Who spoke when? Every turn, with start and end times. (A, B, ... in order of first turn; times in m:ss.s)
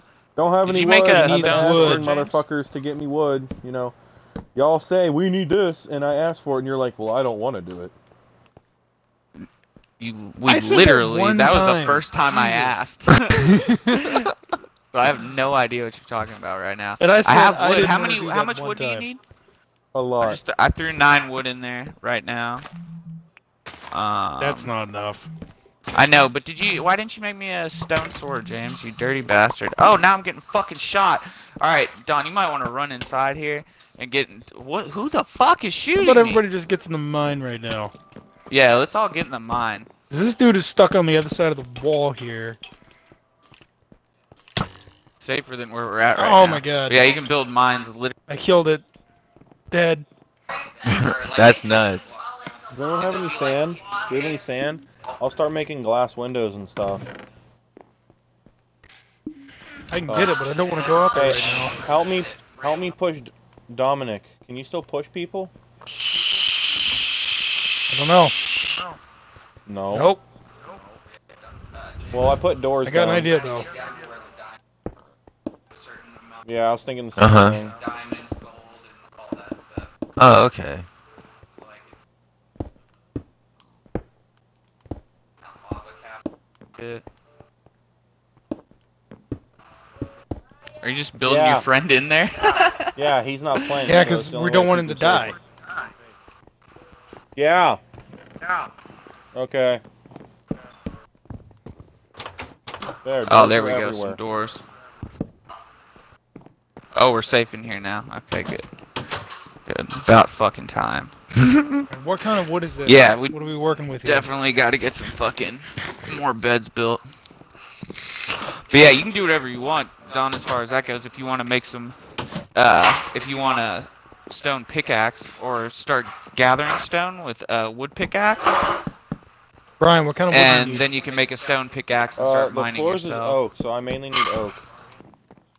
0:00.4-0:04.0 A
0:00.6-0:02.4 B
0:01.1-0:02.3 C
0:04.6-0:07.9 A
0:10.0-0:14.3 B
0:10.4-0:12.9 C
0:14.9-0:19.2 B
0:17.0-0:19.1 C
0:19.9-0:20.4 A
0:20.2-0:22.7 B
0:23.9-0:24.7 B
0:24.4-0:25.3 C
0:25.9-0:36.4 B
0:36.0-0:37.9 C
0:38.5-0:39.9 B
0:40.1-0:42.6 C
0:45.2-0:48.2 B
0:46.2-0:47.1 C
0:48.3-0:48.8 C
0:49.7-0:50.1 C
0:50.8-0:52.6 B
0:50.9-0:52.1 D
0:52.7-0:57.1 A
0:53.1-0:54.0 B
0:59.9-1:01.8 C
1:00.1-1:00.4 A
1:00.2-1:02.9 B
1:01.1-1:05.5 A
1:07.9-1:08.4 C
1:09.7-1:10.1 A
1:09.9-1:10.2 C
1:11.3-1:12.4 B
1:12.1-1:13.3 A
1:12.8-1:13.7 C
1:13.3-1:14.6 B
1:15.7-1:16.4 B
1:16.4-1:17.8 A
1:17.2-1:17.6 D
1:17.6-1:19.9 B
1:20.2-1:20.9 D
1:21.5-1:22.0 B
1:25.4-1:26.2 B
1:26.8-1:27.0 B
1:30.8-1:33.0 B
1:31.2-1:31.7 A
1:33.0-1:35.3 A
1:33.6-1:33.9 B
1:33.9-1:35.4 C
1:37.4-1:37.8 A
1:39.3-1:39.8 A
1:43.0-1:44.2 A
1:43.3-1:44.6 B
1:47.0-1:48.7 B
1:49.7-1:51.8 B
1:51.9-1:54.3 C
1:52.8-1:53.4 B
1:54.0-1:57.0 B
1:58.7-2:02.0 B
2:02.6-2:08.6 B
2:09.8-2:10.9 C
2:10.3-2:13.4 B
2:12.2-2:14.6 A